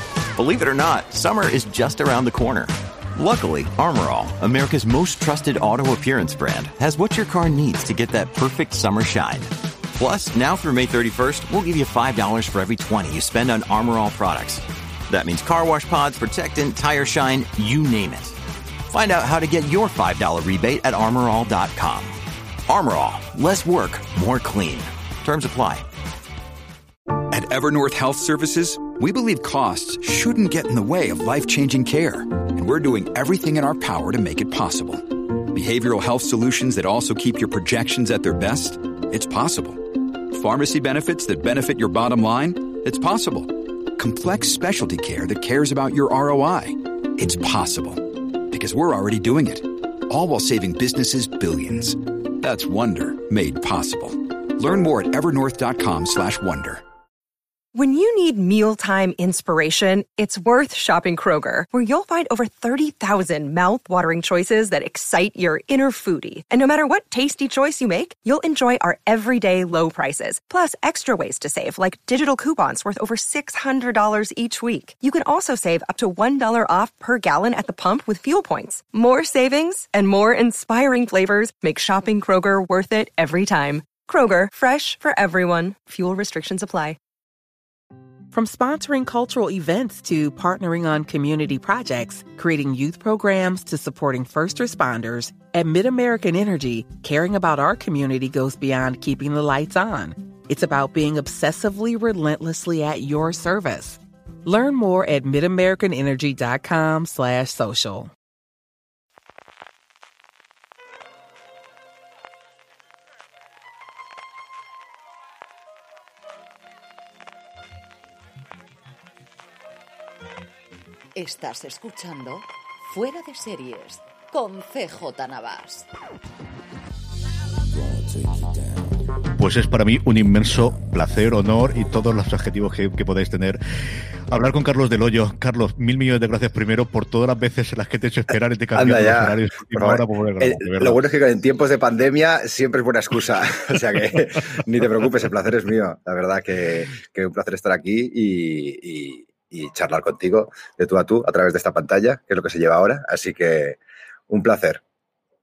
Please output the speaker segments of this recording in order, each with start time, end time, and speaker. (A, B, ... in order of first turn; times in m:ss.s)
0:00.3-0:25.9 A
0:27.3-0:56.8 B
0:57.7-1:27.0 C
1:28.3-1:48.1 D
2:01.1-2:05.9 E
2:09.3-2:13.6 F
2:14.3-2:21.0 F
2:18.8-2:33.8 G
2:34.3-2:34.8 G